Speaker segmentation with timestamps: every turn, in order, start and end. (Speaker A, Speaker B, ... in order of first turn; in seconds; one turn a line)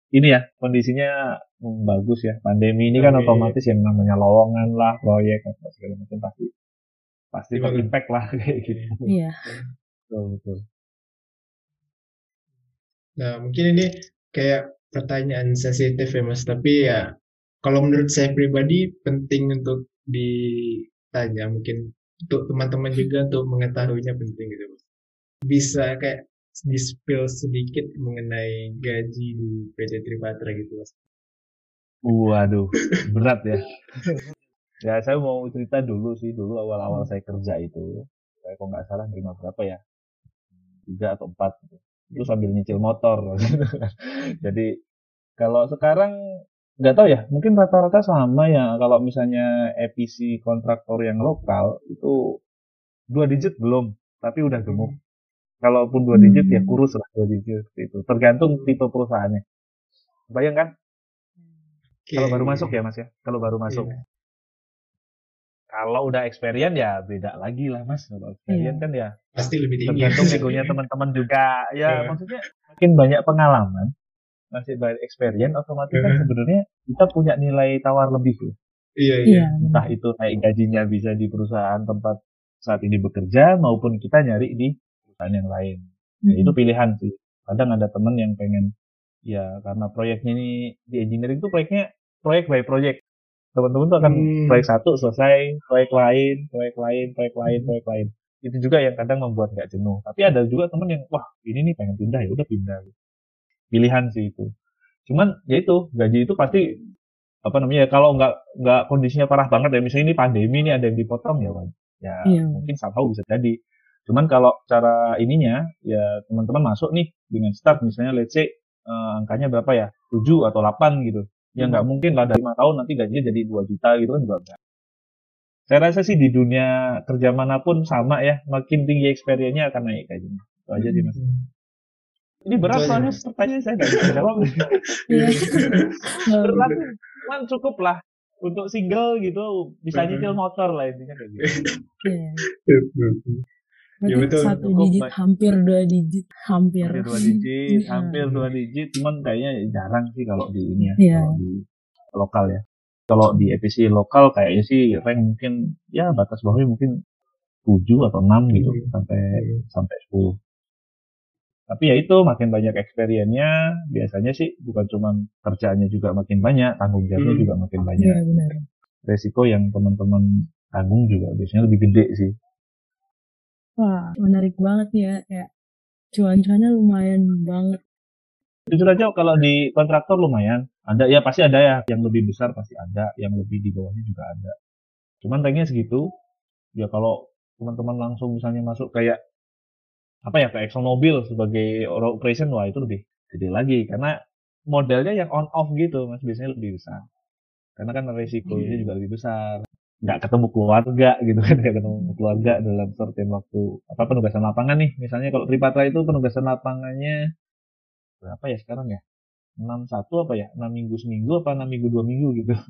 Speaker A: 0.1-6.5
Speaker B: 3.0-3.5
Speaker A: 7.3-9.0
Speaker B: 7.5-7.9
Speaker B: 8.7-8.9
Speaker C: 9.1-9.4
Speaker A: 10.1-10.6
Speaker B: 13.2-17.1
Speaker B: 17.6-20.3
Speaker B: 20.9-24.8
Speaker B: 25.5-30.9
Speaker A: 32.0-34.1
Speaker A: 34.8-37.9
Speaker A: 38.4-39.8
Speaker A: 40.9-44.7
Speaker A: 45.4-46.1
Speaker A: 46.8-52.1
Speaker A: 53.1-54.9
Speaker B: 54.7-55.0
Speaker A: 55.6-59.4
Speaker C: 56.1-56.8
Speaker A: 60.3-60.7
Speaker B: 62.1-62.8
Speaker A: 62.2-63.9
Speaker B: 63.7-64.0
Speaker A: 65.7-69.1
Speaker C: 68.5-68.8
Speaker B: 69.3-70.7
Speaker A: 69.9-73.9
Speaker B: 71.9-72.2
Speaker A: 74.5-78.5
Speaker B: 75.9-76.2
Speaker B: 79.0-79.5
Speaker C: 79.3-79.9
Speaker A: 79.6-85.8
Speaker C: 86.2-86.5
Speaker A: 86.3-88.7
Speaker A: 89.3-93.0
Speaker A: 93.5-102.9
Speaker B: 94.0-94.7
Speaker B: 97.5-97.7
Speaker A: 103.7-104.5
Speaker A: 105.1-106.6
Speaker A: 107.5-113.5
Speaker C: 112.3-112.7
Speaker A: 114.1-124.6
Speaker A: 125.7-131.2
Speaker C: 130.8-131.1
Speaker B: 131.2-131.4
Speaker A: 132.5-134.7
Speaker B: 132.6-133.2
Speaker B: 133.9-134.1
Speaker B: 135.1-135.9
Speaker C: 135.1-136.7
Speaker A: 136.4-141.5
Speaker B: 139.9-140.3
Speaker C: 142.0-142.4
Speaker B: 142.7-143.4
Speaker C: 144.0-148.4
Speaker B: 144.1-144.6
Speaker A: 144.6-145.1
Speaker A: 146.8-151.6
Speaker C: 150.8-151.4
Speaker A: 152.2-156.9
Speaker A: 157.7-160.3
Speaker B: 158.5-159.6
Speaker A: 161.7-168.2
Speaker B: 167.2-167.5
Speaker C: 168.0-168.6
Speaker A: 169.1-172.3
Speaker C: 173.8-175.5
Speaker C: 176.1-177.8
Speaker A: 178.7-184.5
Speaker A: 185.2-186.0
Speaker A: 186.8-189.2
Speaker A: 190.3-194.1
Speaker A: 194.7-197.0
Speaker A: 197.8-199.5
Speaker B: 198.5-198.8
Speaker A: 200.1-207.2
Speaker C: 201.9-202.2
Speaker A: 208.2-209.0
Speaker A: 209.6-212.6